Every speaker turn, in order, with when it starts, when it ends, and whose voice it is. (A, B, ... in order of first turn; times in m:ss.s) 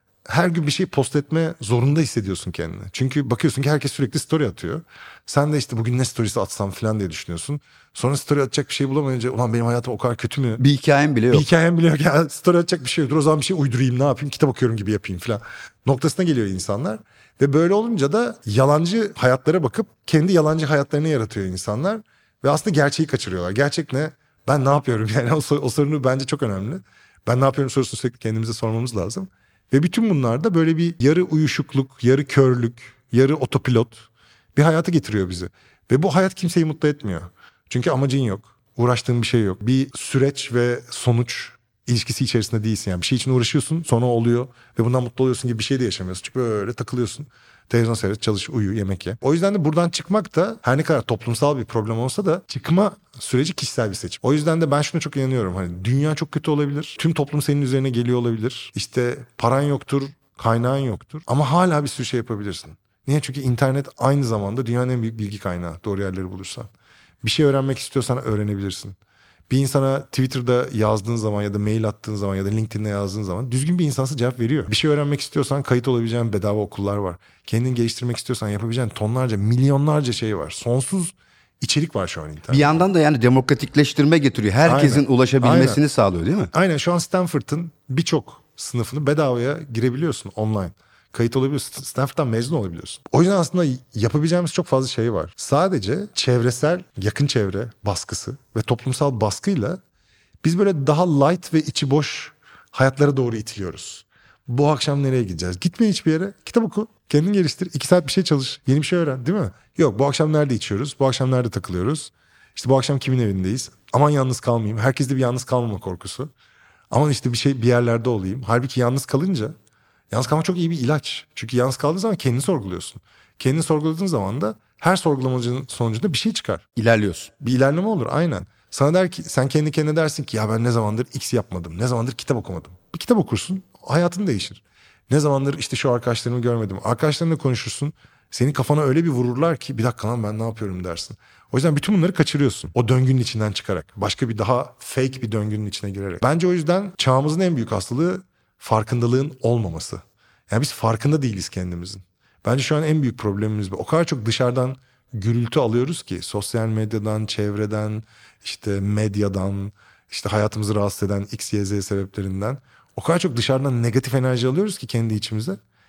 0:00.2-0:10.6 A
0:10.6-0:11.4 B
0:11.3-1:06.7 A
1:07.2-1:09.0 A
1:09.5-1:22.8 A
1:22.5-1:26.5 B
1:24.6-1:25.8 A
1:26.5-1:39.8 A
1:40.4-1:56.3 A
1:56.9-1:59.5 A
2:00.1-2:06.6 A
2:06.8-2:07.3 B
2:07.4-2:45.6 A